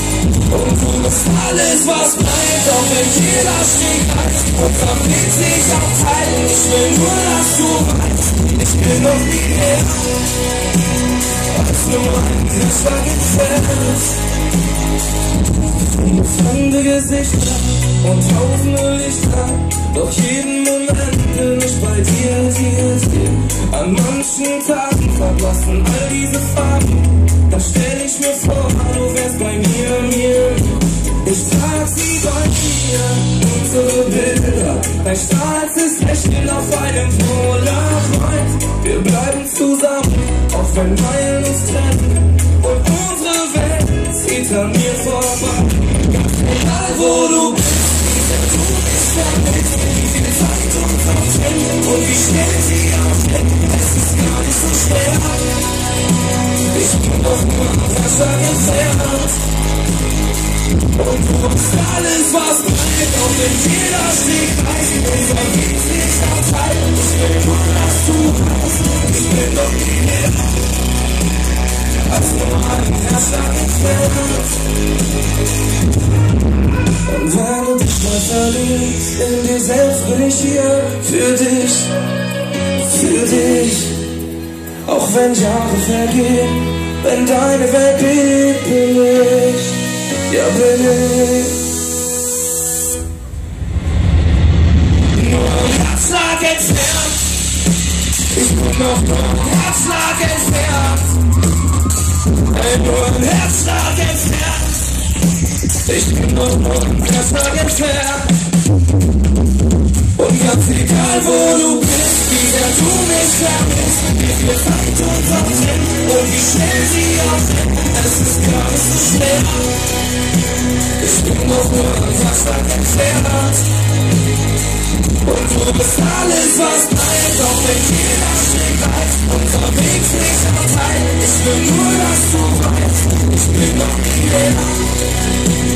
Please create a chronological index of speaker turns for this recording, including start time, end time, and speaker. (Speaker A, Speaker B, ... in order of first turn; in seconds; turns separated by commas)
Speaker A: 0.5-10.5, Speaker A: 11.4-14.3, Speaker A: 15.8-55.8, Speaker A: 56.6-59.5, Speaker A: 60.9-70.7, Speaker A: 72.0-74.7, Speaker A: 77.0-82.0, Speaker A: 82.7-84.1, Speaker A: 84.8-91.7, Speaker A: 95.1-97.4, Speaker A: 98.3-101.2, Speaker A: 102.4-105.0, Speaker A: 105.8-108.4, Speaker A: 110.1-120.0, Speaker A: 121.0-123.8, Speaker A: 125.2-135.0